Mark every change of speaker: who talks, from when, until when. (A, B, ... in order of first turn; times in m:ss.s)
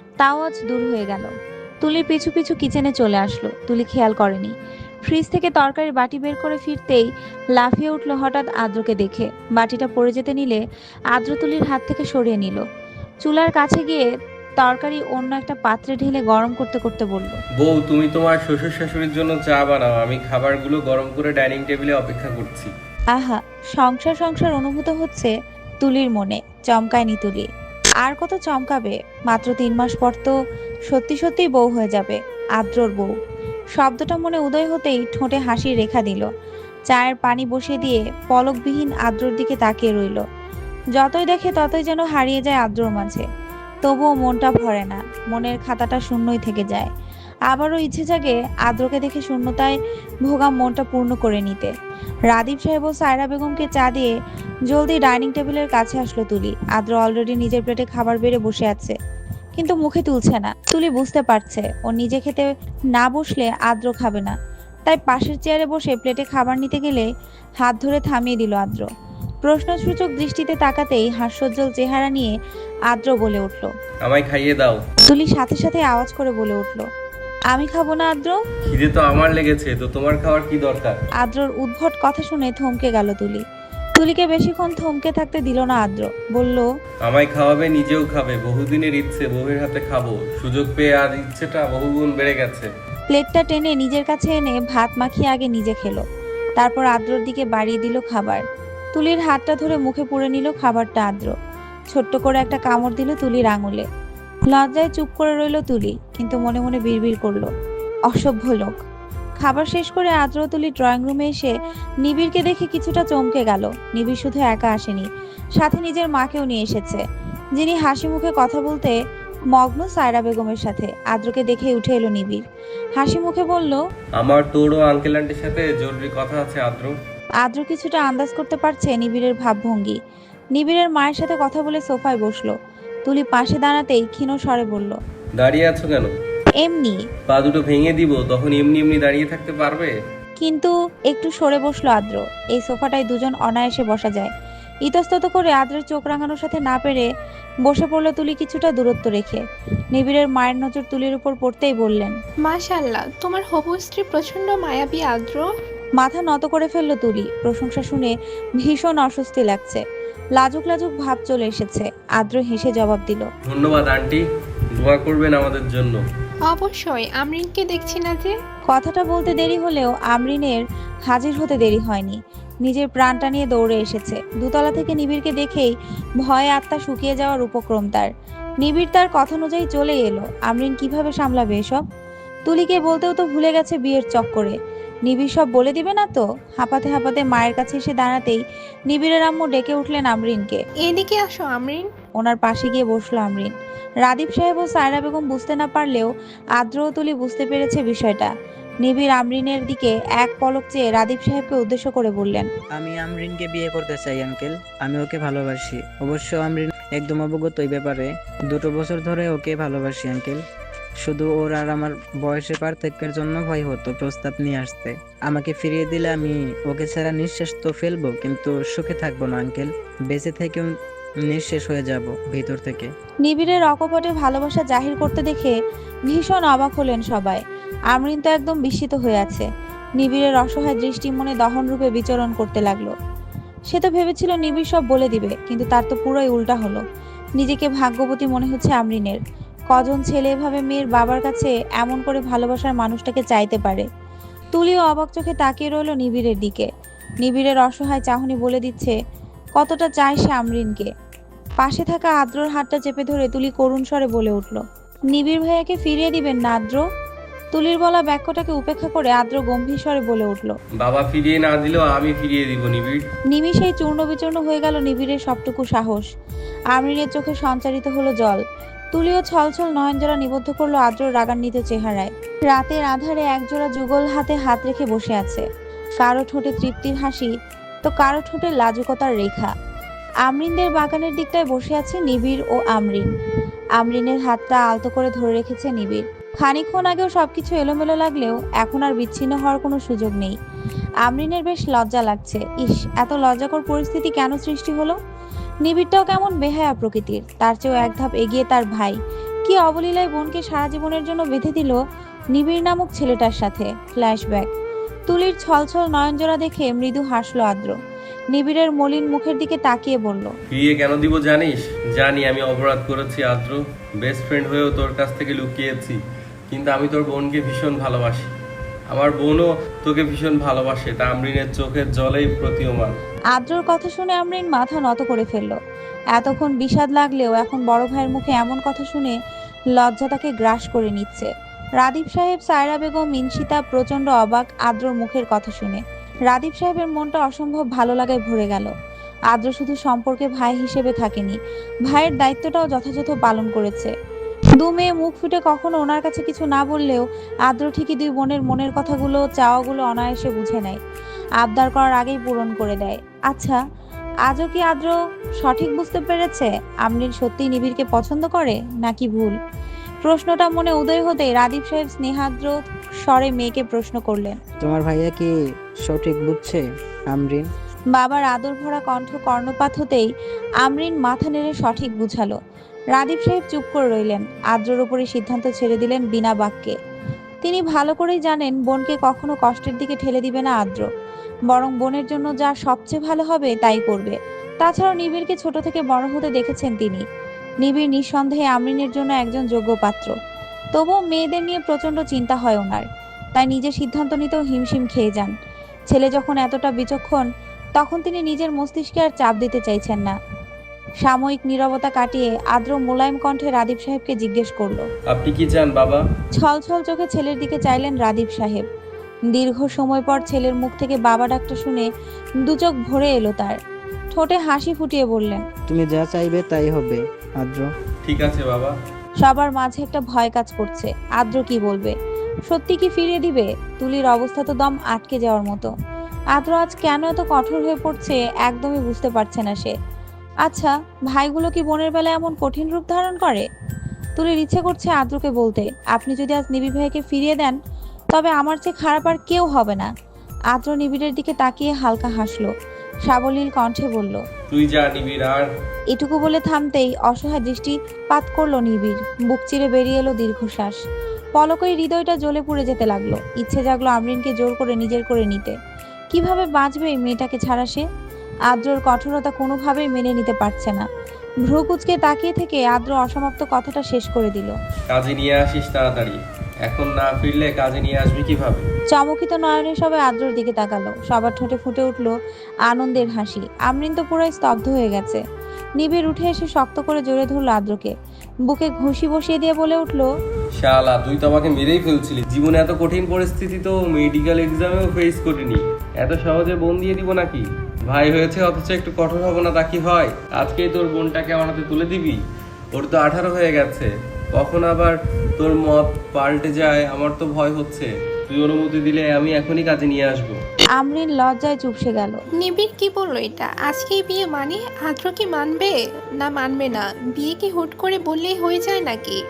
0:00.2-0:01.3 A
0:01.8-0:04.5 A
0:05.1-0:10.6 A
0:11.1-0:12.6 A
0:13.2-0:14.1 A
0:14.6-0:17.4 A
0:17.6-0:22.7 B
0:23.1-0:27.5 A
0:28.0-0:30.3 A
0:30.9-0:33.1 A
0:33.8-0:36.3 A
0:36.9-0:40.2 A
0:40.9-0:43.2 A
0:43.8-0:46.9 A
0:47.5-0:51.7 A
0:52.3-0:54.1 A
0:54.7-0:59.0 A
0:59.6-1:07.1 A
1:07.6-1:08.9 A
1:09.4-1:12.3 A
1:12.9-1:13.7 A
1:14.0-1:14.8 B
1:15.1-1:16.9 A
1:17.5-1:18.4 A
1:18.7-1:21.0 B
1:21.2-1:23.4 A
1:24.0-1:26.7 A
1:27.0-1:32.7 B
1:33.1-1:36.0 A
1:36.6-1:41.3 A
1:41.9-1:43.9 A
1:44.5-1:47.5 A
1:48.1-1:48.7 A
1:49.4-1:57.0 A
1:57.6-1:59.0 A
1:59.5-2:02.4 A
2:03.0-2:03.8 A
2:04.2-2:07.0 B
2:07.4-2:10.0 A
2:10.5-2:12.5 A
2:13.0-2:15.0 A
2:15.4-2:16.1 B
2:16.6-2:17.0 A
2:17.3-2:19.9 B
2:20.4-2:24.3 A
2:24.8-2:27.1 A
2:27.6-2:32.1 A
2:32.4-2:35.5 C
2:36.0-2:39.8 A
2:40.4-2:43.3 A
2:43.4-2:44.2 B
2:44.8-2:46.0 B
2:46.5-2:48.3 C
2:48.7-2:58.1 A
2:58.6-3:01.8 A
3:02.5-3:04.6 A
3:05.1-3:10.6 A
3:10.8-3:11.9 C
3:12.2-3:13.5 A
3:14.0-3:18.3 A
3:18.8-3:22.5 A
3:22.7-3:30.4 D
3:31.0-3:40.7 D
3:41.2-3:42.9 D
3:43.2-3:45.6 A
3:46.1-3:52.9 A
3:53.7-3:56.8 A
3:57.4-4:03.9 A
4:04.5-4:06.7 A
4:07.2-4:08.9 A
4:09.6-4:10.9 A
4:11.6-4:16.8 A
4:17.5-4:20.6 A
4:20.8-4:23.1 B
4:23.3-4:26.1 A
4:26.7-4:28.4 A
4:28.9-4:35.4 A
4:36.0-4:37.3 A
4:37.8-4:39.5 A
4:40.2-4:43.1 A
4:43.8-4:50.4 A
4:51.0-4:55.0 A
4:55.6-5:01.8 A
5:02.3-5:04.5 A
5:05.1-5:07.7 A
5:08.3-5:10.3 A
5:10.5-5:16.0 B
5:16.5-5:18.3 B
5:18.9-5:22.9 B
5:23.3-5:25.6 A
5:26.1-5:29.2 A
5:29.7-5:38.7 A
5:39.3-5:43.9 A
5:44.6-5:50.8 A
5:51.4-5:53.6 A
5:54.2-5:59.4 A
6:00.0-6:04.4 A
6:04.6-6:07.5 D
6:07.9-6:10.1 A
6:10.6-6:12.4 A
6:12.9-6:16.8 A
6:17.4-6:20.9 A
6:21.5-6:27.0 A
6:27.6-6:30.1 A
6:30.7-6:35.3 A
6:35.9-6:40.2 A
6:41.0-6:44.8 A
6:45.1-6:46.0 B
6:46.4-6:48.6 A
6:49.3-6:51.9 A
6:52.4-6:53.6 A
6:54.1-6:55.4 A
6:55.7-6:57.7 D
6:58.0-6:58.8 B
6:59.2-7:01.9 A
7:02.5-7:05.7 A
7:06.3-7:09.7 A
7:10.4-7:13.5 A
7:14.2-7:17.6 A
7:18.1-7:19.9 A
7:20.5-7:22.5 A
7:23.1-7:24.2 A
7:24.5-7:25.5 B
7:25.9-7:30.8 A
7:31.4-7:35.6 A
7:36.1-7:37.8 A
7:38.5-7:40.9 A
7:41.4-7:44.5 A
7:44.9-7:48.6 B
7:48.9-7:52.1 A
7:52.7-7:55.2 A
7:55.8-7:57.9 A
7:58.4-8:00.1 A
8:00.6-8:12.2 B
8:12.7-8:20.4 B
8:20.8-8:22.2 A
8:22.4-8:29.2 C